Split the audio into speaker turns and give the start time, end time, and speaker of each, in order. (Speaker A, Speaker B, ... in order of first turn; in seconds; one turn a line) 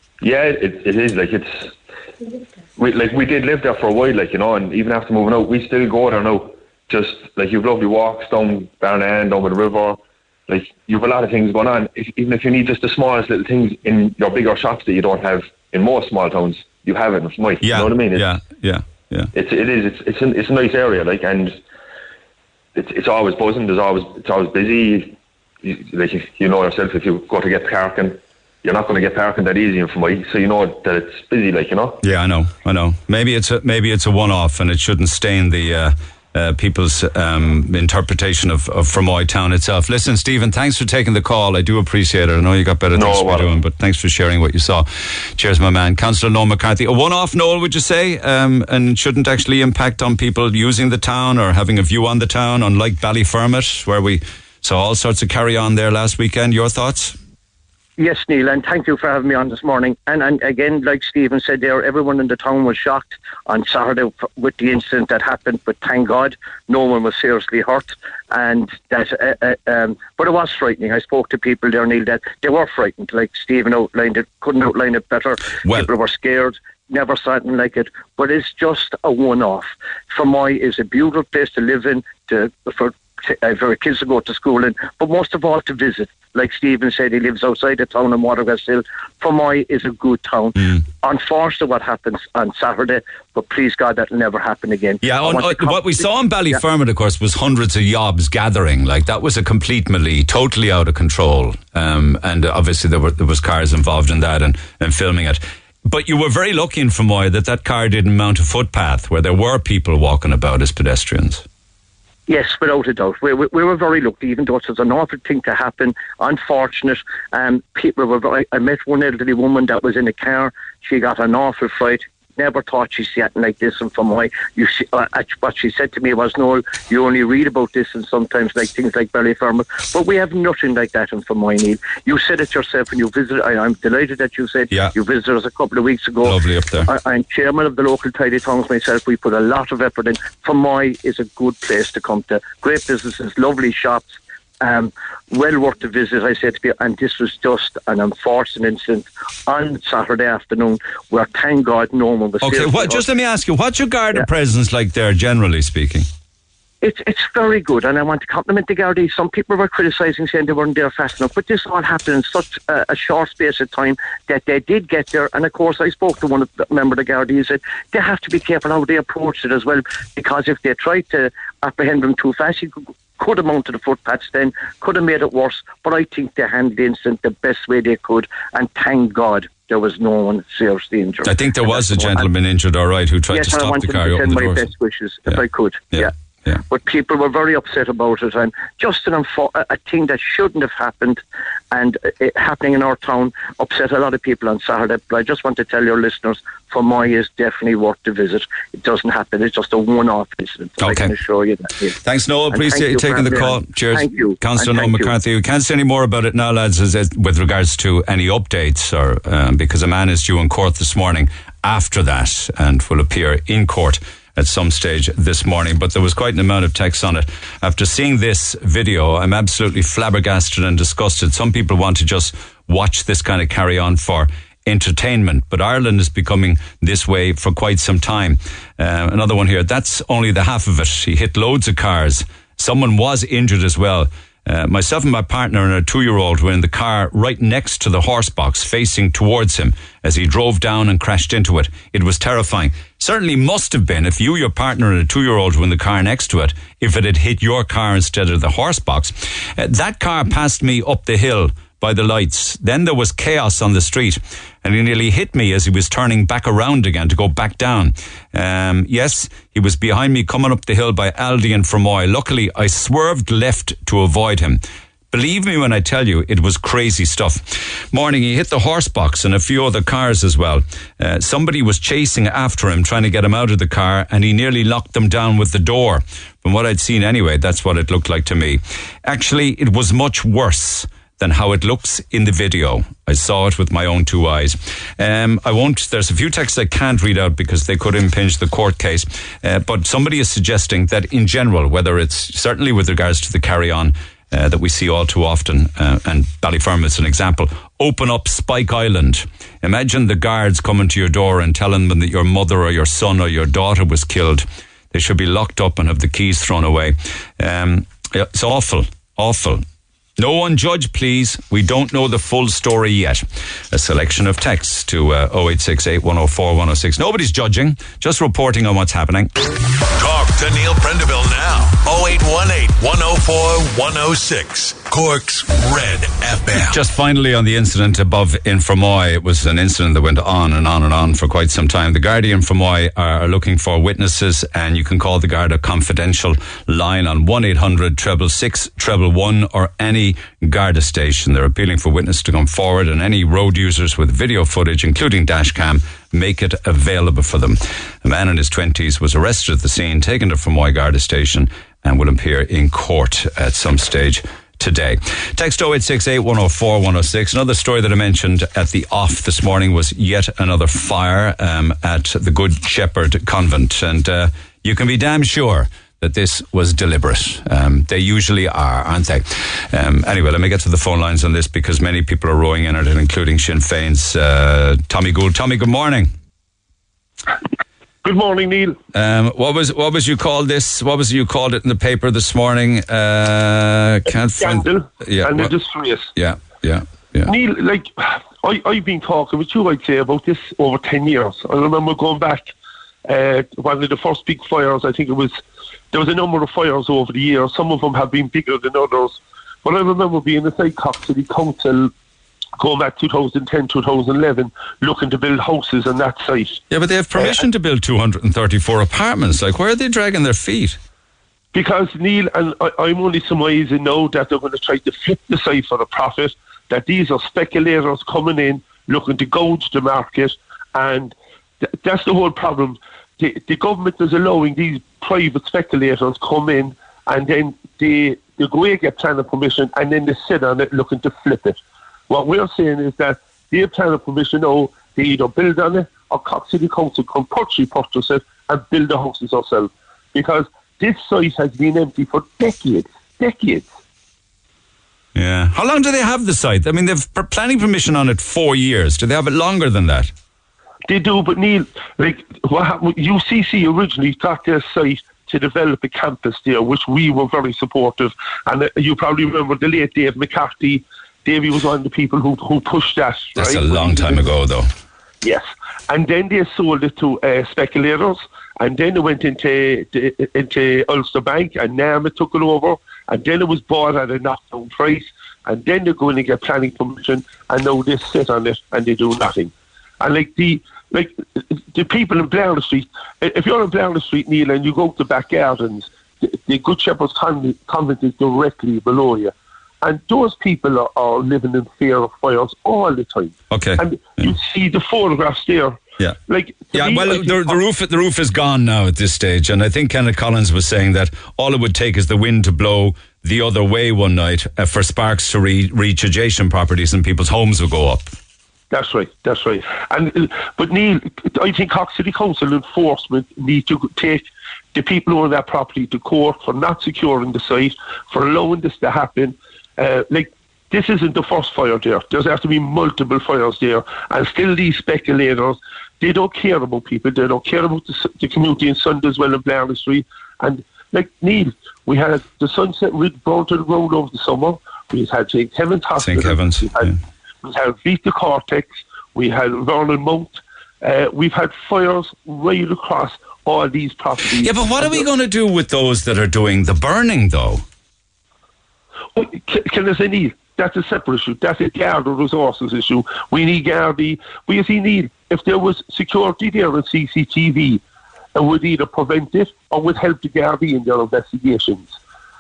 Speaker A: 0.2-1.8
Speaker A: 2.8-18.3
Speaker B: 17.6-19.3
Speaker A: 19.3-21.6
Speaker A: 22.8-32.0
Speaker B: 32.0-57.2
Speaker A: 42.9-43.5
Speaker C: 58.0-96.6
Speaker B: 95.0-111.4
Speaker C: 112.3-153.1
Speaker B: 136.2-136.9
Speaker B: 152.4-156.1
Speaker C: 156.8-182.3
Speaker B: 181.2-184.7
Speaker C: 183.3-186.1
Speaker B: 185.9-186.6
Speaker C: 186.6-191.2
Speaker C: 191.7-202.0
Speaker B: 200.8-201.1
Speaker B: 202.0-309.6
Speaker C: 202.5-205.1
Speaker B: 310.2-319.3
Speaker D: 319.9-326.8
Speaker B: 326.5-376.1
Speaker E: 378.0-378.8
Speaker B: 378.9-385.5
Speaker E: 384.4-386.1
Speaker B: 386.1-387.3
Speaker E: 387.3-392.5
Speaker E: 393.1-401.9
Speaker E: 402.6-406.6
Speaker B: 406.7-410.8
Speaker E: 407.2-407.4
Speaker E: 411.5-421.1
Speaker E: 421.8-443.7
Speaker B: 445.1-450.1
Speaker E: 450.9-464.2
Speaker B: 463.4-464.7
Speaker E: 465.2-497.6
Speaker B: 493.5-494.3
Speaker B: 496.7-508.1
Speaker E: 508.7-536.9
Speaker B: 536.0-537.0
Speaker E: 537.4-545.1
Speaker B: 544.4-547.6
Speaker E: 549.2-557.8
Speaker E: 558.4-562.0